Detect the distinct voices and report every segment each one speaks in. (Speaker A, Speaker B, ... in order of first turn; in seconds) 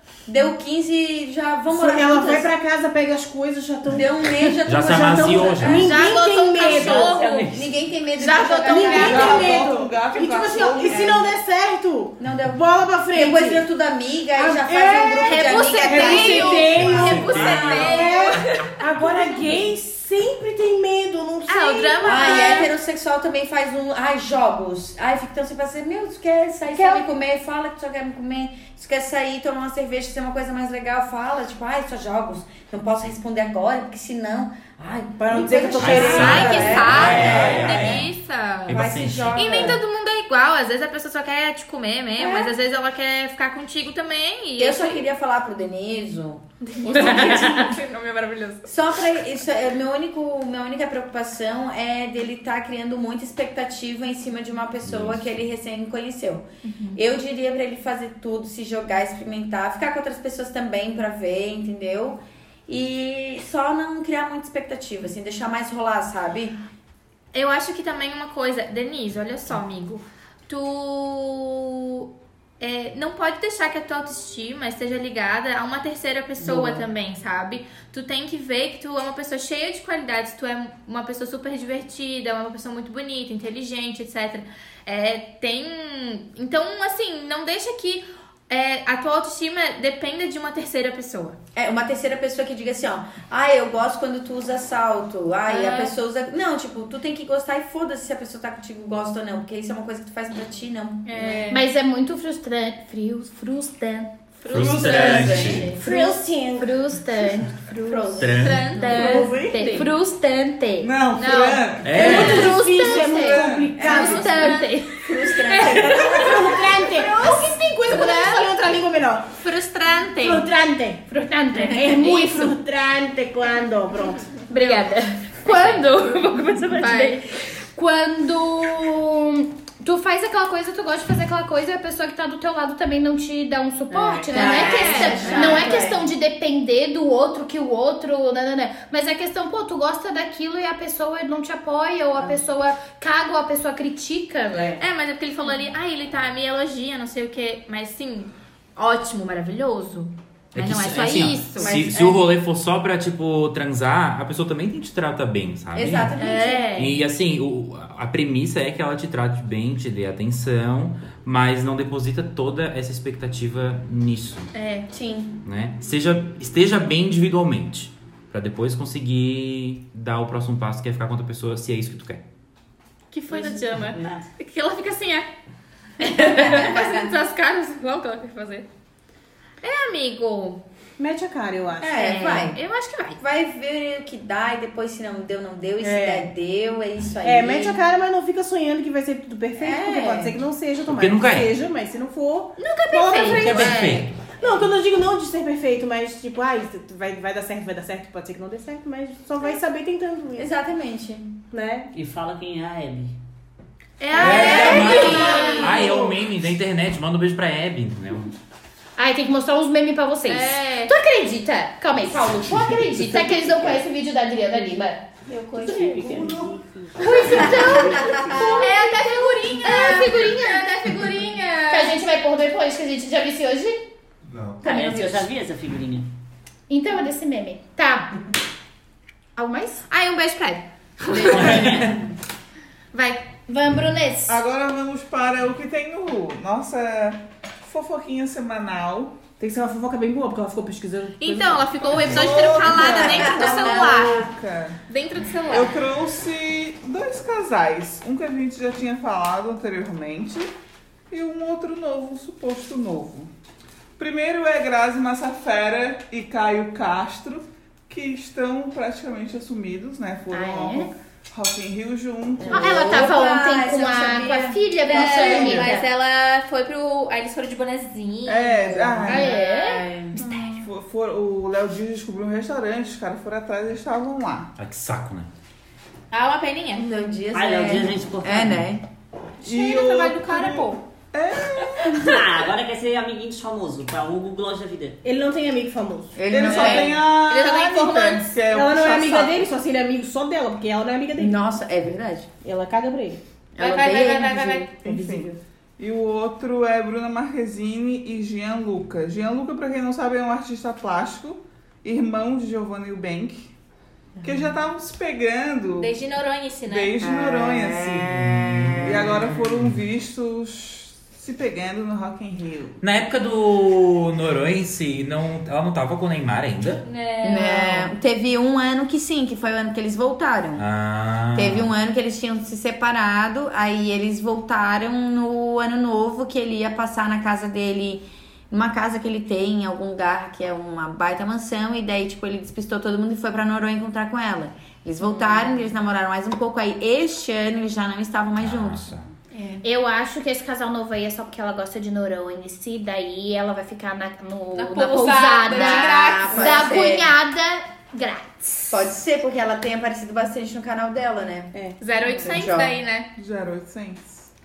Speaker A: 0.3-2.5, 3.9-6.0, 7.5-9.7, 10.9-11.2, 12.2-18.1, 22.0-38.0, 38.7-39.8, 44.6-47.7, 48.7-66.6, 76.4-76.9, 91.5-101.5, 104.8-105.7, 107.9-108.6, 113.8-114.3, 115.0-116.8, 134.3-136.1, 144.5-144.8, 151.6-152.3, 155.7-156.7, 164.9-165.4, 176.2-177.0, 181.8-182.6, 183.2-187.8, 189.6-190.4, 200.4-201.4, 215.3-216.3, 217.3-218.7, 224.6-225.3, 242.7-244.3, 262.4-265.6, 269.2-270.2, 276.8-278.9, 286.1-287.0, 291.2-292.3, 293.6-294.7, 307.0-309.1, 317.2-320.6, 321.4-338.9, 345.5-347.2, 348.7-351.5, 352.2-352.7
Speaker B: 1.7-7.3, 8.7-13.6, 14.3-22.7, 26.7-27.1, 35.1-37.3, 105.1-106.8, 108.8-109.7, 111.9-114.6, 115.6-119.4, 120.2-121.0, 121.6-124.3, 133.9-135.8, 181.0-181.9, 185.8-186.3, 187.2-200.5, 201.5-201.9, 204.2-206.2, 239.4-241.8, 285.0-286.2, 288.5-291.4, 292.4-293.2, 294.8-295.4, 351.5-351.8
Speaker C: 4.7-5.9, 16.7-18.0, 35.8-38.1, 38.7-39.4, 54.8-55.3, 104.5-105.8, 108.2-108.8, 111.8-112.5, 150.5-156.1, 156.8-164.5, 165.4-172.2, 190.9-191.6, 193.3-194.2, 204.2-208.3, 231.2-232.0, 274.6-275.3, 308.3-309.8, 312.8-316.8, 320.6-321.7, 338.4-339.1
Speaker D: 5.7-7.5, 8.2-9.6, 15.2-18.7, 21.5-22.7, 36.0-45.1, 46.6-48.7, 56.6-57.0, 67.3-72.1, 72.6-91.4, 95.5-96.0, 101.0-101.6, 104.4-105.8, 108.4-109.9, 111.2-113.1, 113.8-114.9, 115.7-116.2, 117.8-118.8, 119.4-120.5, 124.5-125.9, 126.7-127.2, 134.3-135.7, 144.8-151.7, 156.2-156.7, 164.5-164.9, 173.1-175.3, 176.0-178.7, 179.6-180.7, 181.9-183.2, 192.6-194.0, 204.0-205.8, 210.3-210.9, 217.1-217.7, 218.3-222.0, 229.9-231.7, 232.9-233.3, 241.2-244.3, 244.9-245.8, 264.9-270.7, 276.1-277.0, 279.4-280.8, 286.4-288.4, 293.6-294.8, 305.8-307.0, 316.8-317.9, 339.3-339.6, 344.6-346.9, 351.8-353.1
Speaker E: 6.7-7.7, 173.7-174.3, 201.9-203.2, 215.6-218.6, 224.6-226.1, 231.1-232.0, 277.3-278.7, 281.9-285.0
Speaker F: 8.9-11.3, 104.6-105.6, 110.8-112.3, 113.1-113.7, 234.3-239.2, 241.8-244.8, 245.5-250.5, 251.1-253.3, 254.0-262.8, 264.9-265.7, 268.3-269.3, 270.6-274.5, 279.4-282.0, 286.3-289.5, 294.8-303.5, 304.2-305.9, 306.7-308.3, 308.8-312.8, 353.2-354.3
Speaker G: 101.5-104.1, 105.5-111.0, 112.0-116.0, 121.1-122.5, 124.5-144.8, 156.2-156.9, 204.2-205.7, 209.0-215.0, 217.0-220.7, 221.7-223.9, 226.7-228.1, 229.4-229.9, 233.5-234.4, 260.3-260.9, 262.5-265.9, 269.1-270.6, 339.6-348.8